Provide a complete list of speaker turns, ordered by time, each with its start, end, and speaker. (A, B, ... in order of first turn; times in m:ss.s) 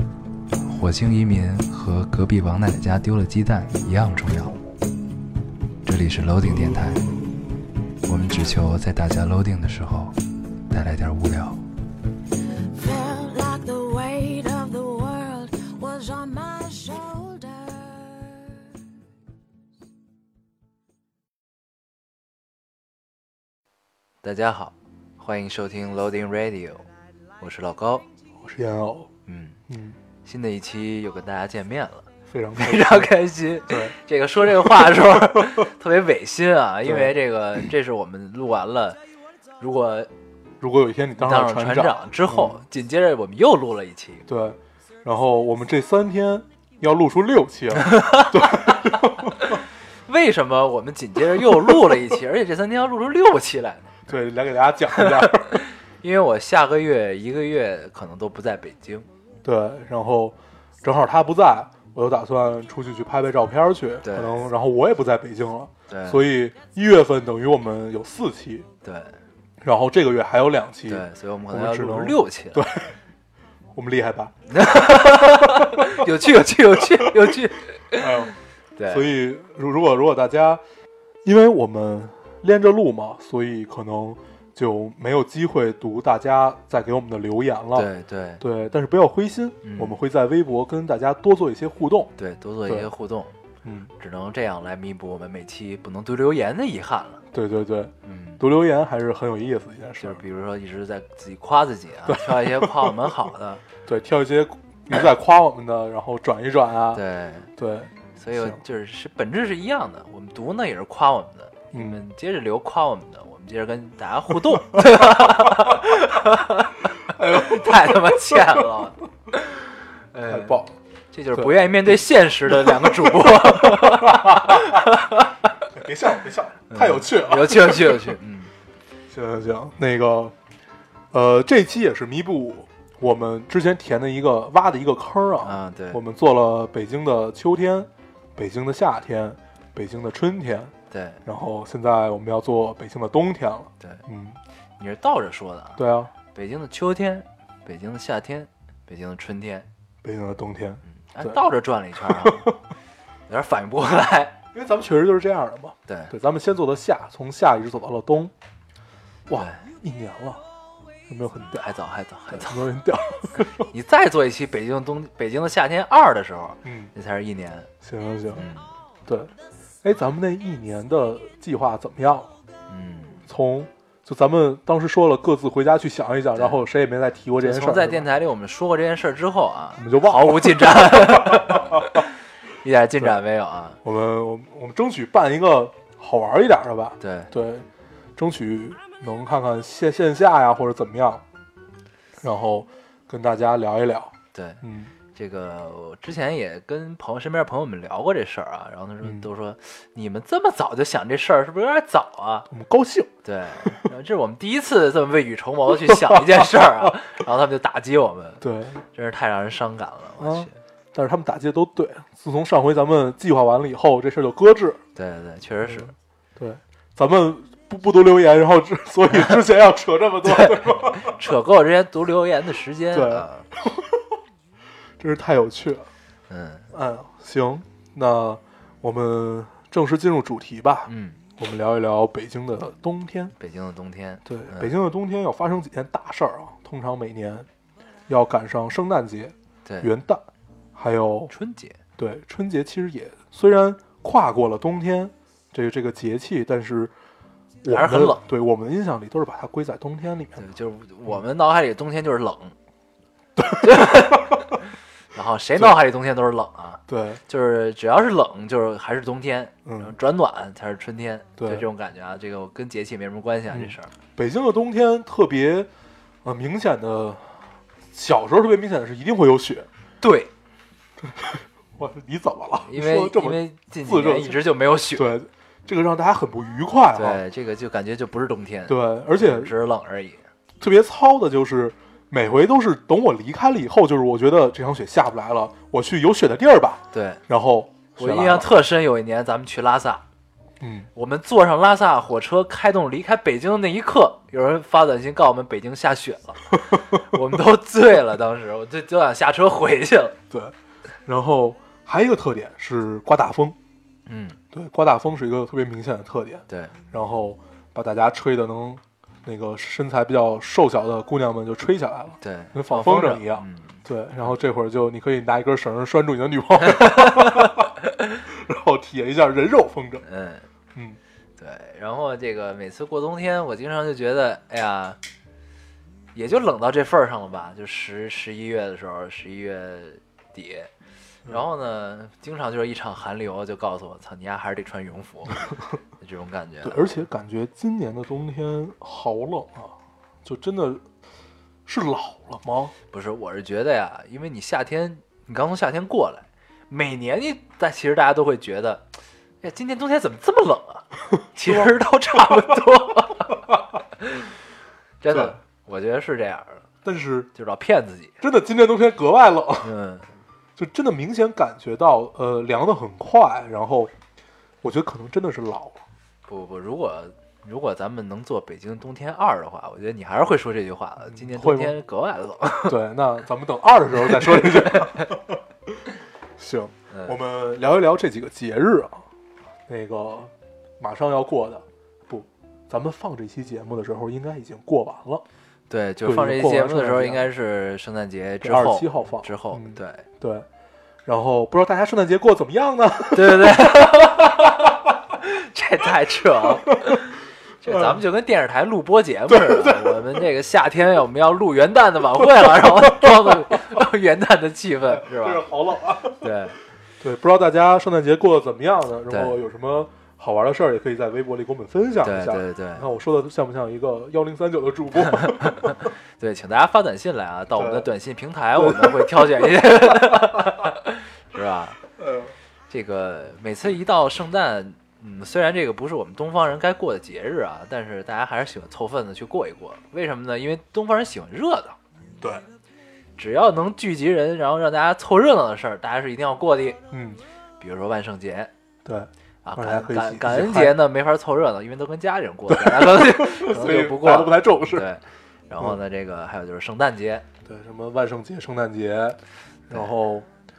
0:00.6-0:04.6 A
0:05.9-0:07.1 A
0:08.0-0:10.2 A
0:10.7-0:11.6 A
0:12.6-0:18.4 B
0:24.2-0:26.9 A
0:27.4-0:28.1 A
0:28.4-0:29.1 C
0:29.3-0:29.6 A
0:29.7-0:30.0 C
0:30.2-0:39.0 A
0:32.3-0:33.1 C
0:33.6-0:35.6 C
0:36.8-0:37.2 C
0:39.6-0:40.1 A
0:40.6-0:42.6 C
0:41.2-0:44.2 A
0:44.3-0:49.6 C
0:47.8-0:53.9 A
0:51.4-0:51.7 C
0:54.1-0:55.6 C
0:55.0-0:59.1 A
0:59.4-1:08.7 C
1:04.0-1:04.5 A
1:05.9-1:06.2 A
1:08.8-1:09.2 A
1:09.6-1:12.9 C
1:10.9-1:12.8 A
1:13.7-1:16.1 C
1:14.5-1:19.1 A
1:16.9-1:17.4 C
1:18.0-1:18.4 C
1:18.9-1:20.6 C
1:21.2-1:32.1 C
1:27.8-1:28.4 A
1:29.6-1:30.0 A
1:32.2-1:33.4 A
1:33.6-1:33.9 C
1:34.0-1:37.2 A
1:37.3-1:40.2 C
1:38.0-1:38.4 A
1:40.0-1:43.6 A
1:42.1-1:43.1 C
1:43.8-1:47.0 C
1:46.9-1:47.5 A
1:47.6-1:48.6 C
1:48.2-2:00.6 A
1:51.7-1:52.0 C
1:54.7-1:55.8 C
1:57.1-1:58.6 C
2:00.3-2:00.8 C
2:01.1-2:05.5 A
2:02.5-2:04.9 C
2:05.7-2:08.2 C
2:06.7-2:08.5 A
2:09.1-2:10.4 C
2:11.1-2:20.7 C
2:15.4-2:16.0 A
2:20.9-2:21.2 A
2:21.2-2:24.4 C
2:24.8-2:25.8 A
2:25.8-2:26.1 C
2:26.3-2:29.7 A
2:30.0-2:31.4 C
2:30.9-2:32.5 A
2:32.0-2:32.6 C
2:33.3-2:34.4 A
2:34.5-2:38.3 C
2:35.9-2:36.1 A
2:39.3-2:40.4 C
2:39.4-2:39.6 A
2:41.1-2:41.7 C
2:41.4-2:42.7 A
2:42.3-2:43.7 C
2:43.7-2:47.7 A
2:46.6-2:46.9 C
2:47.8-2:48.5 C
2:48.3-2:48.7 A
2:49.1-2:49.3 C
2:49.8-2:52.3 C
2:52.7-2:53.2 A
2:53.3-2:58.1 C
2:56.4-2:56.6 A
2:57.4-3:03.8 A
2:59.8-3:02.0 C
3:03.8-3:07.7 C
3:07.0-3:07.3 A
3:08.2-3:11.2 C
3:12.2-3:14.9 C
3:14.3-3:14.6 A
3:15.1-3:22.5 A
3:19.0-3:19.3 C
3:22.5-3:23.1 C
3:23.2-3:30.6 A
3:25.7-3:26.9 C
3:28.4-3:28.8 C
3:30.2-3:34.8 C
3:35.0-3:35.9 A
3:35.6-3:41.2 C
3:40.3-3:43.5 A
3:42.9-3:44.2 C
3:45.0-3:45.9 C
3:46.3-3:46.7 A
3:46.7-3:53.3 C
3:50.9-3:51.2 A
3:53.4-3:54.7 A
3:54.3-3:57.5 C
3:58.1-4:01.3 C
3:59.6-3:59.9 A
4:01.3-4:01.8 A
4:02.0-4:06.9 C
4:07.6-4:10.5 C
4:07.7-4:08.2 A
4:10.4-4:12.6 A
4:13.4-4:14.4 C
4:13.6-4:23.9 A
4:16.9-4:17.2 C
4:19.6-4:19.9 C
4:21.4-4:21.7 C
4:23.5-4:25.7 C
4:26.2-4:27.4 C
4:27.9-4:29.7 C
4:30.0-4:30.3 A
4:31.0-4:34.4 C
4:32.6-4:35.2 A
4:34.9-4:37.2 C
4:37.0-4:40.2 A
4:38.7-4:39.5 C
4:40.6-4:48.5 C
4:46.9-4:47.2 A
4:48.0-4:50.0 A
4:50.6-4:50.9 C
4:51.0-5:00.2 A
4:56.7-4:57.0 C
5:01.1-5:03.6 C
5:04.1-5:04.4 A
5:04.5-5:17.7 C
5:06.5-5:06.7 A
5:12.2-5:13.8 A
5:16.6-5:17.6 A
5:18.3-5:20.0 C
5:20.0-5:20.5 A
5:21.4-5:25.0 A
5:26.1-5:30.7 A
5:31.3-5:35.5 A
5:36.0-5:36.9 A
5:36.6-5:40.8 C
5:41.7-5:42.7 C
5:42.9-5:54.3 A
5:51.4-5:52.5 C
5:55.0-5:56.6 A
5:55.1-5:55.4 C
5:56.8-5:57.3 C
5:57.4-5:58.2 A
5:58.2-5:59.7 C
5:59.6-6:00.1 A
6:00.6-6:03.9 C
6:04.6-6:05.8 C
6:06.3-6:12.8 A
6:11.1-6:11.8 C
6:12.7-6:19.0 C
6:14.3-6:15.1 A
6:16.9-6:17.2 A
6:19.7-6:25.2 C
6:25.7-6:30.0 A
6:26.0-6:27.3 C
6:28.4-6:30.5 C
6:31.0-6:34.8 C
6:33.1-6:45.4 A
6:37.6-6:38.0 C
6:39.3-6:40.2 C
6:42.2-6:43.8 C
6:44.9-6:46.3 C
6:46.2-6:46.6 A
6:47.0-6:55.9 C
6:49.1-6:49.4 A
6:52.0-6:52.9 A
6:55.1-7:01.8 A
6:57.6-6:57.9 C
6:58.6-7:00.7 C
7:02.0-7:02.3 C
7:02.7-7:11.8 A
7:13.2-7:16.8 A
7:16.9-7:17.2 C
7:17.6-7:18.5 A
7:18.8-7:20.8 C
7:19.4-7:27.3 A
7:22.5-7:24.9 C
7:27.4-7:29.2 C
7:29.7-7:30.3 C